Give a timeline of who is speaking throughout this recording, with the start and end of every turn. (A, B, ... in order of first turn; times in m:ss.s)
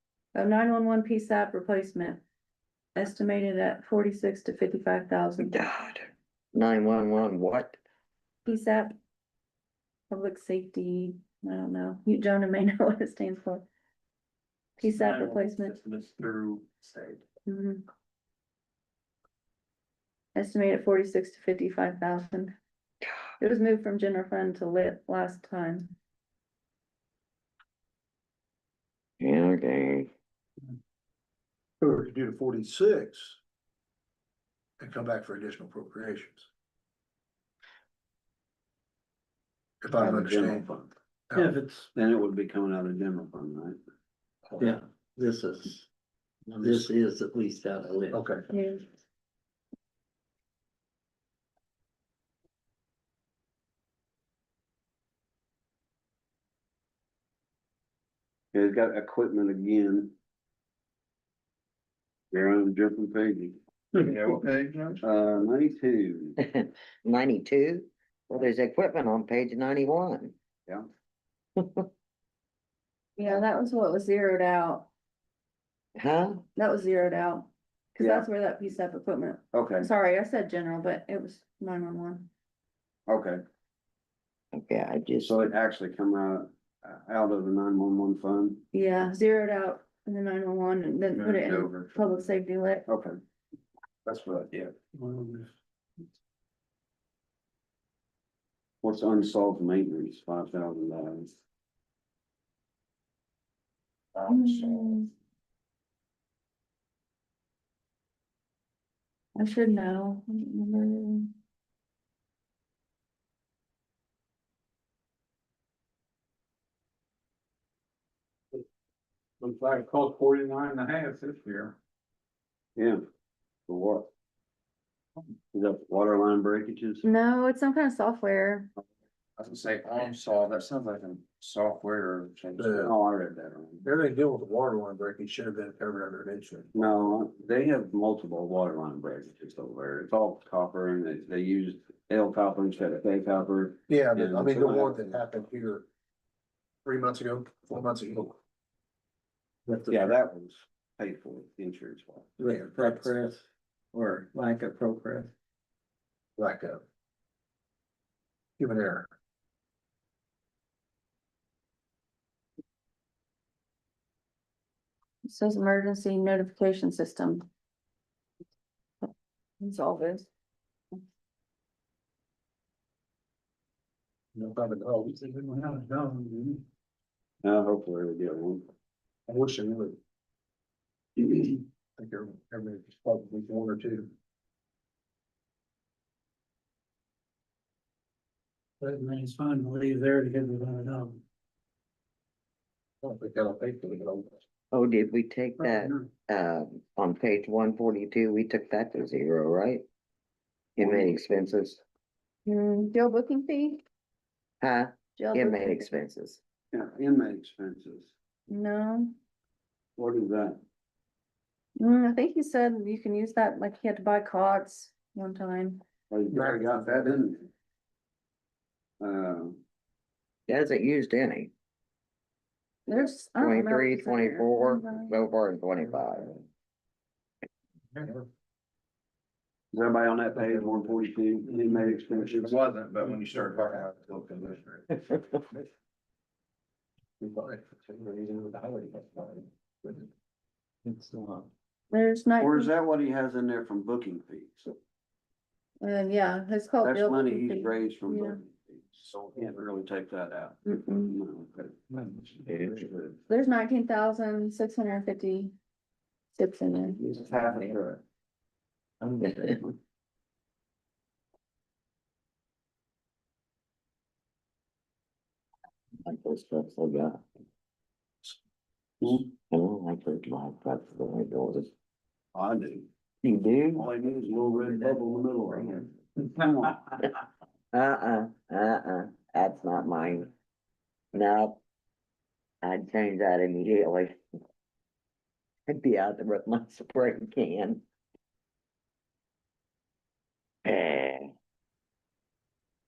0:00.3-0:02.2 A
0:03.0-0:05.6 A
0:05.4-0:07.8 B
0:08.4-0:09.0 A
0:10.1-0:13.6 A
0:14.8-0:15.7 A
0:15.2-0:17.2 C
0:17.4-0:17.8 A
0:20.3-0:22.5 A
0:23.4-0:25.9 A
0:29.2-0:30.1 B
0:31.8-0:33.4 D
0:34.8-0:36.5 D
0:39.8-0:40.7 D
0:39.9-0:40.9 E
0:41.3-0:41.6 D
0:41.3-0:41.8 F
0:41.9-0:43.8 E
0:44.5-0:44.8 D
0:44.6-0:45.8 F
0:46.5-0:48.2 F
0:46.6-0:46.9 D
0:48.1-0:48.4 D
0:48.5-0:48.8 A
0:58.5-1:00.1 E
1:02.3-1:03.6 E
1:03.9-1:05.0 C
1:05.0-1:06.4 E
1:06.4-1:10.3 B
1:11.6-1:11.8 B
1:13.2-1:14.9 A
1:16.0-1:16.4 B
1:16.6-1:22.3 A
1:18.0-1:18.3 E
1:19.5-1:19.9 E
1:23.1-1:23.4 E
1:24.5-1:25.4 B
1:25.2-1:28.6 E
1:28.7-1:32.8 A
1:31.2-1:31.9 C
1:32.9-1:33.2 E
1:34.0-1:34.7 E
1:35.0-1:35.5 F
1:38.8-1:41.3 E
1:44.2-1:44.8 C
1:44.3-1:45.1 A
1:49.4-1:51.3 A
1:59.4-2:01.8 C
2:03.7-2:04.1 E
2:05.5-2:07.1 E
2:07.0-2:08.7 A
2:09.4-2:12.7 C
2:12.6-2:12.9 D
2:12.7-2:13.9 E
2:13.8-2:16.9 D
2:16.7-2:25.2 E
2:23.9-2:25.9 D
2:26.8-2:28.4 D
2:29.7-2:30.1 F
2:29.9-2:32.3 E
2:32.4-2:33.4 F
2:33.9-2:35.3 F
2:36.4-2:36.8 D
2:38.6-2:39.1 D
2:45.2-2:47.4 A
2:49.6-2:50.3 A
2:54.3-2:55.5 D
2:55.4-2:56.5 F
2:57.4-2:58.7 E
2:59.3-3:00.0 D
3:01.2-3:04.1 D
3:08.8-3:11.2 F
3:13.0-3:14.4 D
3:14.7-3:19.8 B
3:20.8-3:21.8 B
3:20.8-3:21.1 E
3:22.4-3:23.8 A
3:24.6-3:26.4 B
3:25.2-3:25.8 A
3:26.7-3:28.1 E
3:28.5-3:29.2 A
3:30.0-3:30.6 E
3:31.8-3:35.8 A
3:36.1-3:37.5 E
3:36.3-3:37.2 D
3:39.0-3:39.6 E
3:40.5-3:41.5 B
3:42.9-3:45.2 A
3:43.4-3:46.4 B
3:48.0-3:48.3 D
3:49.7-3:52.5 E
3:52.0-3:54.8 C
3:53.0-3:54.6 D
3:55.2-3:55.6 D
3:57.2-4:00.1 D
4:00.8-4:01.5 F
4:01.9-4:02.7 A
4:02.4-4:04.7 E
4:05.8-4:08.4 A
4:06.8-4:11.8 E
4:10.6-4:11.2 A
4:12.4-4:13.2 E
4:13.3-4:15.5 A
4:16.3-4:17.0 A
4:17.0-4:17.9 E
4:17.3-4:18.0 C
4:19.2-4:19.5 B
4:26.0-4:27.2 B
4:29.0-4:29.3 E
4:29.0-4:31.7 B
4:32.3-4:32.9 E
4:33.2-4:33.9 B
4:33.7-4:36.8 E
4:37.7-4:40.3 B
4:41.1-4:41.6 B
4:42.6-4:44.2 B
4:45.7-4:47.8 B
4:50.6-4:51.3 B